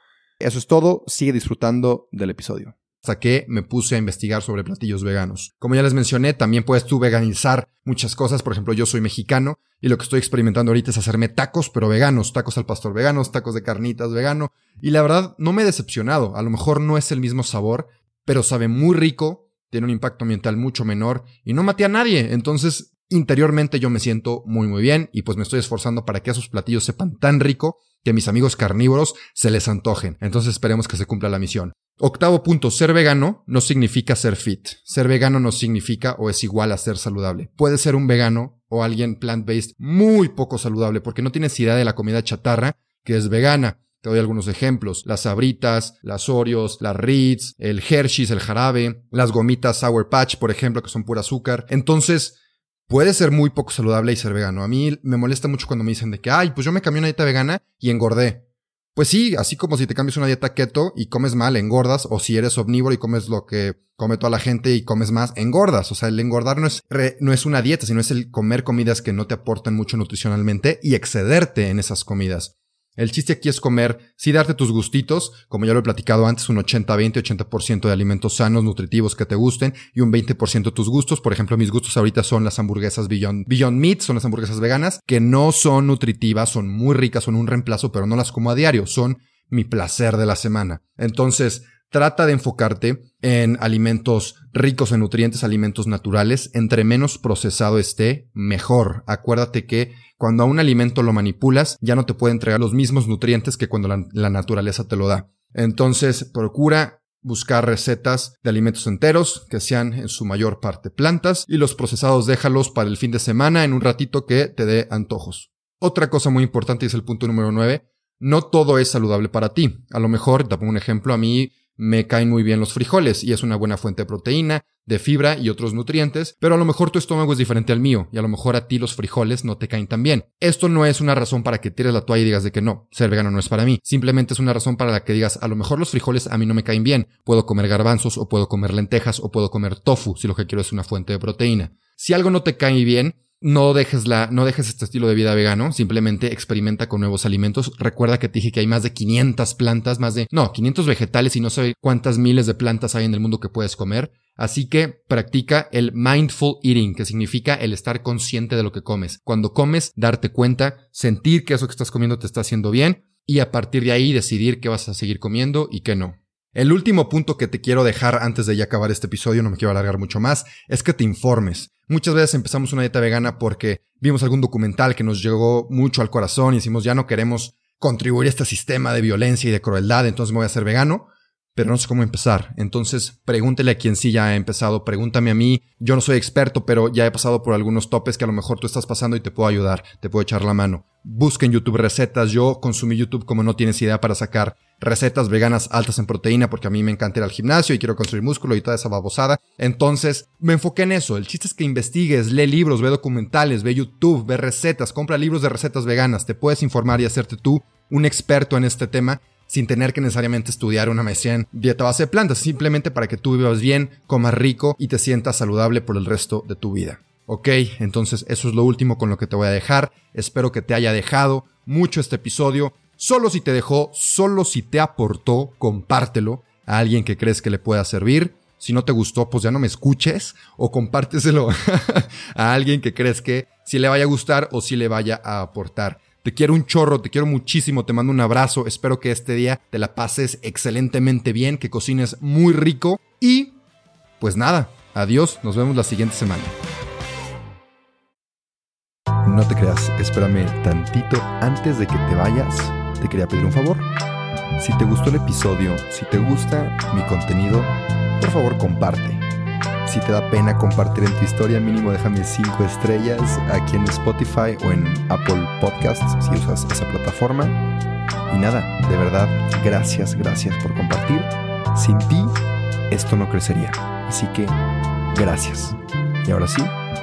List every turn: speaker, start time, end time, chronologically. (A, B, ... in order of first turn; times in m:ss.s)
0:00.4-0:52.4 A
0:52.9-0:58.4 A
0:58.9-4:03.6 A
4:04.2-4:06.5 A
4:09.2-4:13.9 A
4:14.6-4:19.2 A
4:19.8-4:27.6 A
4:28.3-4:32.3 A
4:32.9-4:34.6 A
4:35.1-4:36.7 A